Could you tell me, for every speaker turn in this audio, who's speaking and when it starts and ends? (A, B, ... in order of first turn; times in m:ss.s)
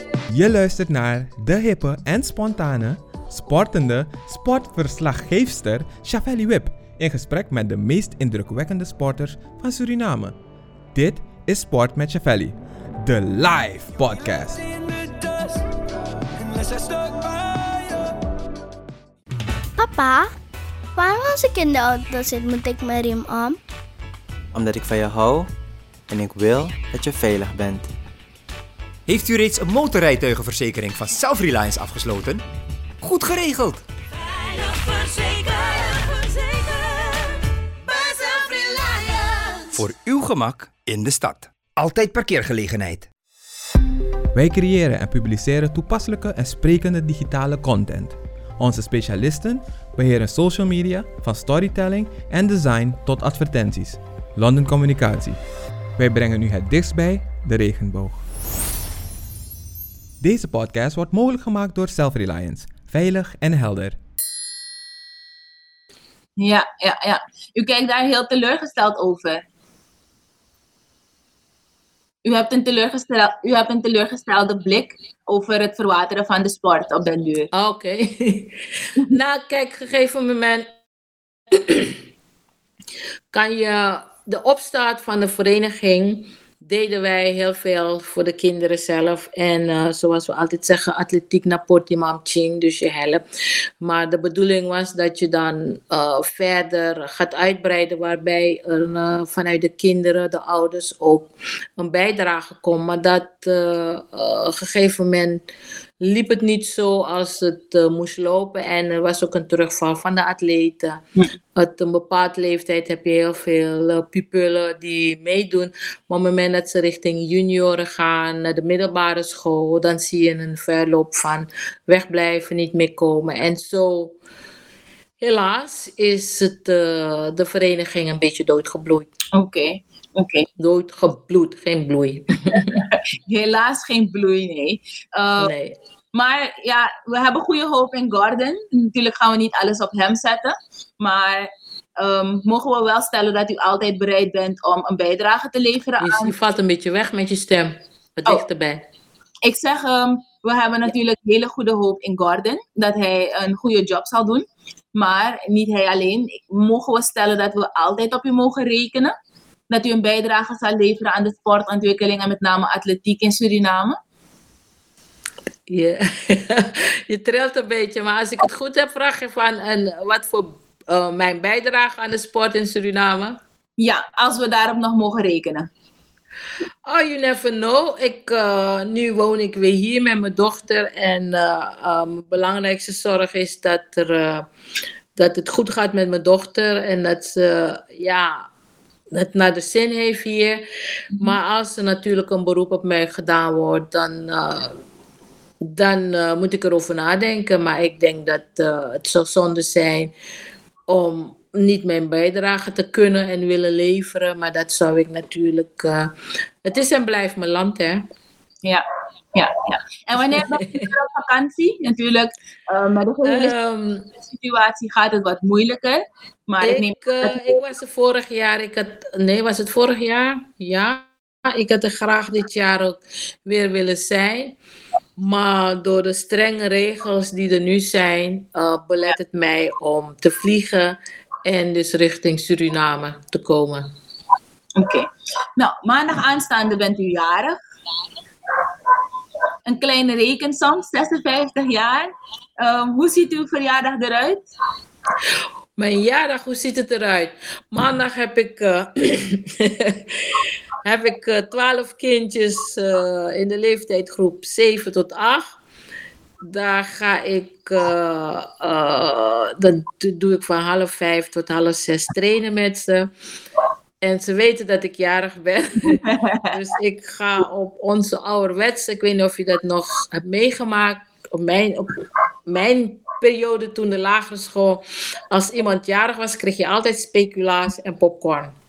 0:00.3-0:10.3 A
0:10.9-0:14.6 A
0:14.6-0:15.6 B
0:16.4-0:18.1 B
0:19.8-0:20.3 C
0:21.0-0:23.6 C
0:25.0-0:25.4 B
0:26.1-0:27.8 B
0:29.1-0:32.4 D
0:33.0-0:33.8 D
0:34.1-0:39.8 B
0:39.7-0:43.1 D
0:44.3-0:55.4 A
0:56.0-0:58.2 A
1:00.2-1:04.0 A
1:06.4-1:09.4 E
1:12.2-1:17.5 E
1:17.5-1:20.7 F
1:21.5-1:22.0 F
1:23.3-1:33.2 F
1:33.8-1:45.4 F
1:46.0-1:51.0 F
1:51.6-2:04.2 F
2:05.2-2:09.1 F
2:09.3-2:10.5 E
2:10.6-2:12.9 F
2:12.6-2:15.5 E
2:15.4-2:15.7 F
2:16.1-2:26.3 E
2:26.0-2:28.8 F
2:29.4-2:34.4 E
2:35.0-2:39.1 E
2:39.7-2:44.0 E
2:45.7-2:53.4 F
2:53.8-2:55.7 E
2:56.9-3:04.5 F
3:05.2-3:08.5 F
3:09.1-3:10.6 F
3:11.2-3:14.7 F
3:15.6-3:20.1 F
3:20.9-3:26.1 F
3:26.6-3:28.0 F
3:28.6-3:33.5 E
3:30.3-3:30.9 F
3:33.2-3:34.1 F
3:34.3-3:37.6 E
3:36.6-3:44.6 F
3:45.2-3:53.9 F
3:54.8-3:57.6 E
3:59.7-4:04.4 E
4:05.8-4:15.6 F
4:16.4-4:23.1 F
4:24.0-4:31.9 F
4:26.0-4:26.5 E
4:32.4-4:38.5 F